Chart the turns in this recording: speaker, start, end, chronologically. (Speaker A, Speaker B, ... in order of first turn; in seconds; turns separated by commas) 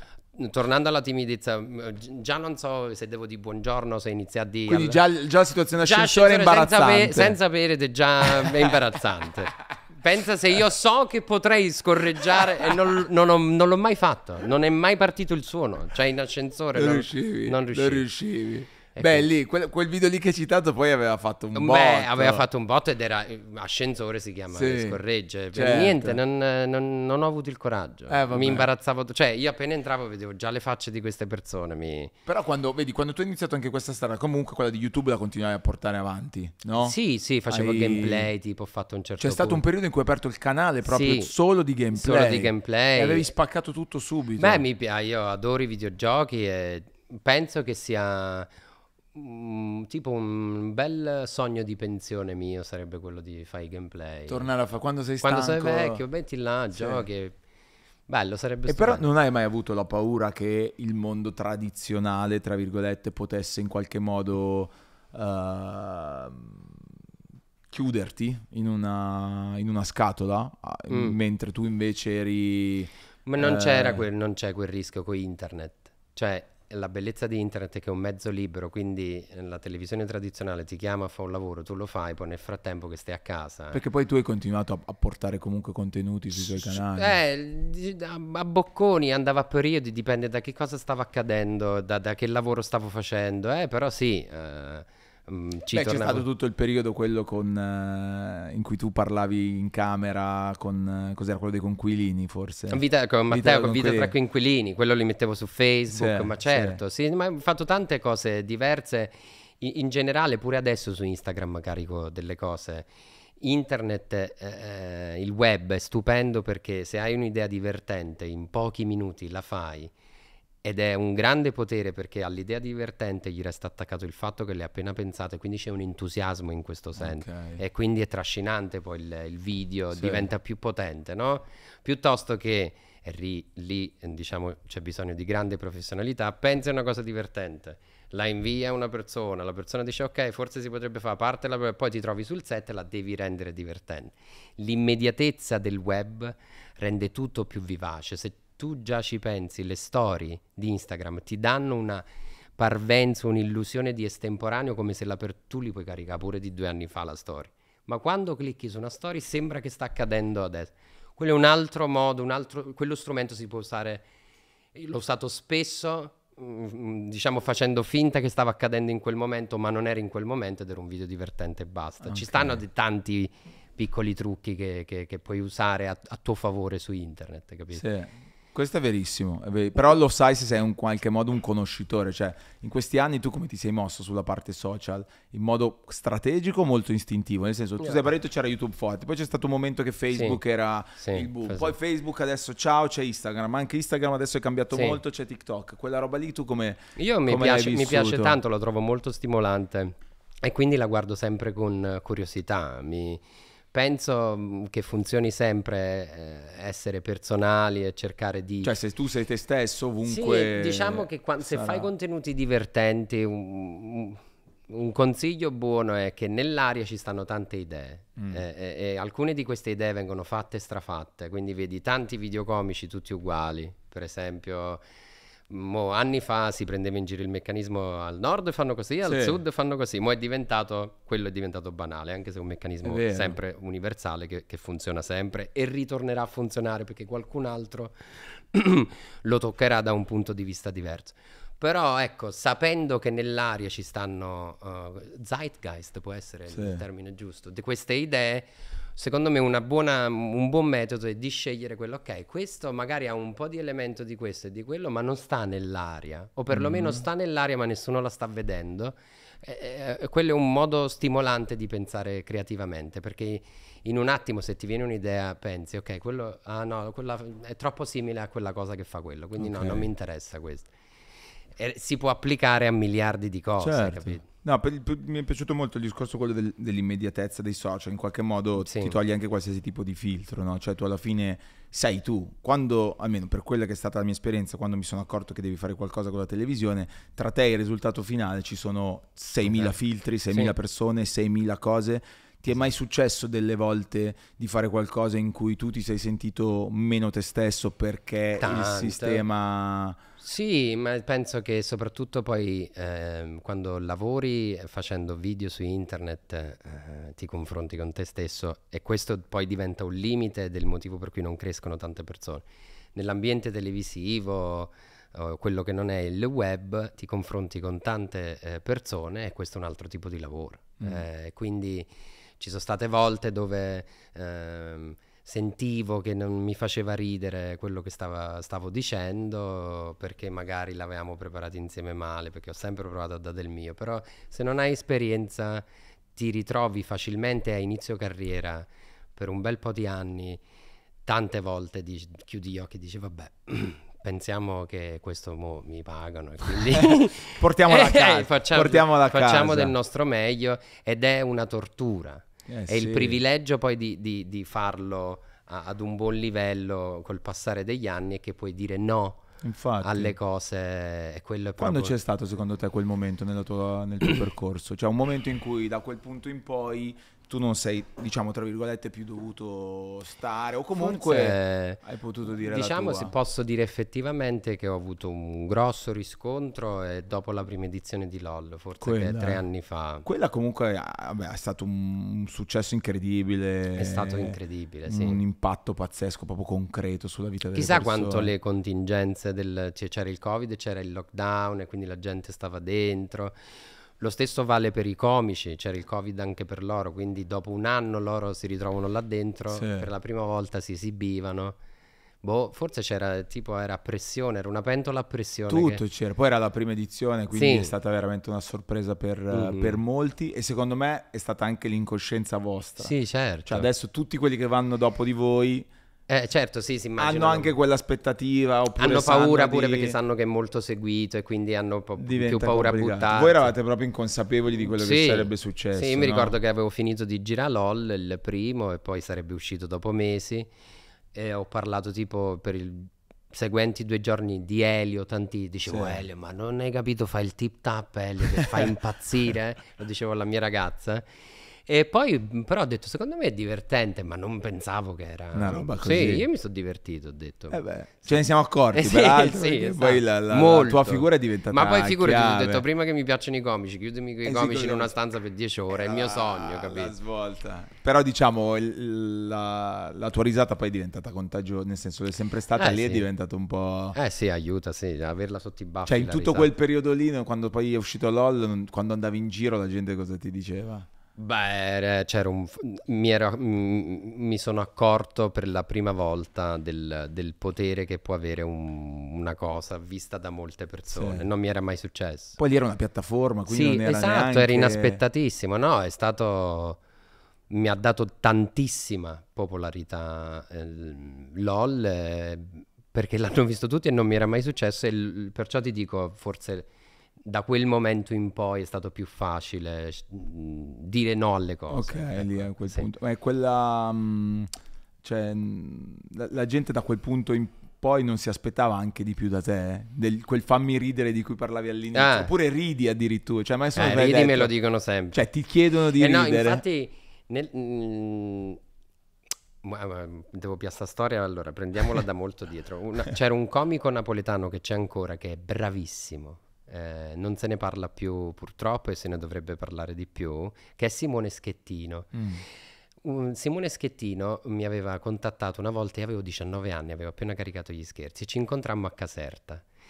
Speaker A: 0.3-5.0, Speaker B: 4.7-7.4, Speaker A: 5.8-18.1, Speaker B: 8.3-8.7, Speaker B: 12.4-12.7, Speaker B: 16.7-22.4, Speaker A: 18.9-19.3, Speaker A: 21.5-32.1, Speaker B: 24.5-25.0, Speaker B: 25.5-26.2, Speaker B: 28.1-28.7, Speaker B: 32.3-37.0, Speaker A: 36.8-39.6, Speaker B: 37.5-38.3, Speaker B: 39.2-44.6, Speaker A: 40.9-41.3, Speaker A: 41.9-43.3, Speaker A: 44.4-48.5, Speaker A: 49.1-54.5, Speaker B: 54.3-56.0, Speaker A: 55.2-57.4, Speaker B: 56.7-57.0, Speaker A: 58.1-59.0, Speaker B: 58.7-66.9, Speaker B: 67.7-74.0, Speaker A: 70.9-71.2, Speaker A: 73.3-83.8, Speaker B: 83.7-87.2, Speaker A: 86.4-96.2, Speaker B: 95.7-104.1, Speaker A: 102.7-112.9, Speaker B: 105.9-106.8, Speaker A: 113.4-119.9, Speaker A: 120.6-152.1, Speaker B: 127.0-127.6, Speaker B: 129.9-130.3, Speaker A: 152.6-164.1, Speaker A: 164.8-177.8, Speaker B: 172.0-172.6, Speaker B: 177.8-198.4, Speaker A: 187.8-188.1, Speaker A: 190.1-190.4, Speaker A: 191.0-191.7, Speaker A: 194.7-195.0, Speaker A: 197.0-208.7, Speaker B: 208.6-211.9, Speaker A: 210.0-224.8, Speaker A: 225.5-270.7, Speaker B: 229.1-229.4, Speaker B: 232.8-233.4, Speaker B: 246.5-246.8, Speaker B: 256.5-257.0, Speaker B: 269.4-269.9, Speaker A: 271.6-274.2, Speaker B: 273.6-300.0, Speaker A: 278.6-279.0, Speaker A: 289.4-289.8, Speaker A: 298.4-299.2, Speaker A: 300.2-340.4, Speaker A: 341.1-359.2, Speaker B: 346.6-349.7, Speaker B: 352.5-353.2, Speaker B: 359.4-360.1, Speaker A: 359.8-361.9, Speaker B: 361.6-373.1, Speaker A: 370.8-371.8, Speaker A: 372.4-380.1, Speaker B: 378.8-379.4, Speaker B: 380.1-384.4, Speaker A: 383.8-385.2, Speaker B: 384.9-388.3, Speaker A: 387.5-393.4, Speaker A: 394.0-401.6, Speaker B: 399.5-399.9, Speaker A: 402.2-405.8, Speaker B: 405.5-412.9, Speaker A: 407.3-407.7, Speaker A: 409.3-409.8, Speaker A: 412.8-413.7, Speaker B: 413.5-415.7, Speaker A: 416.1-417.5, Speaker B: 417.0-420.0, Speaker A: 418.8-423.5, Speaker B: 422.0-426.4, Speaker A: 424.7-430.5, Speaker A: 431.1-441.1, Speaker B: 435.7-436.0, Speaker A: 441.7-447.6, Speaker B: 445.3-446.2, Speaker B: 447.5-452.6, Speaker A: 448.7-456.9, Speaker B: 454.2-454.9, Speaker B: 455.7-464.0, Speaker A: 462.6-463.1, Speaker A: 463.9-466.5, Speaker B: 465.9-470.9, Speaker A: 471.2-482.4, Speaker B: 480.9-481.3, Speaker B: 482.4-485.0, Speaker A: 483.5-486.8, Speaker A: 487.5-496.7, Speaker A: 497.2-502.9, Speaker B: 501.7-504.5, Speaker B: 505.0-514.5, Speaker A: 511.9-512.3, Speaker A: 513.8-515.2, Speaker B: 515.1-516.6, Speaker A: 515.9-518.6, Speaker A: 519.6-532.2, Speaker B: 532.1-532.4, Speaker A: 533.0-539.6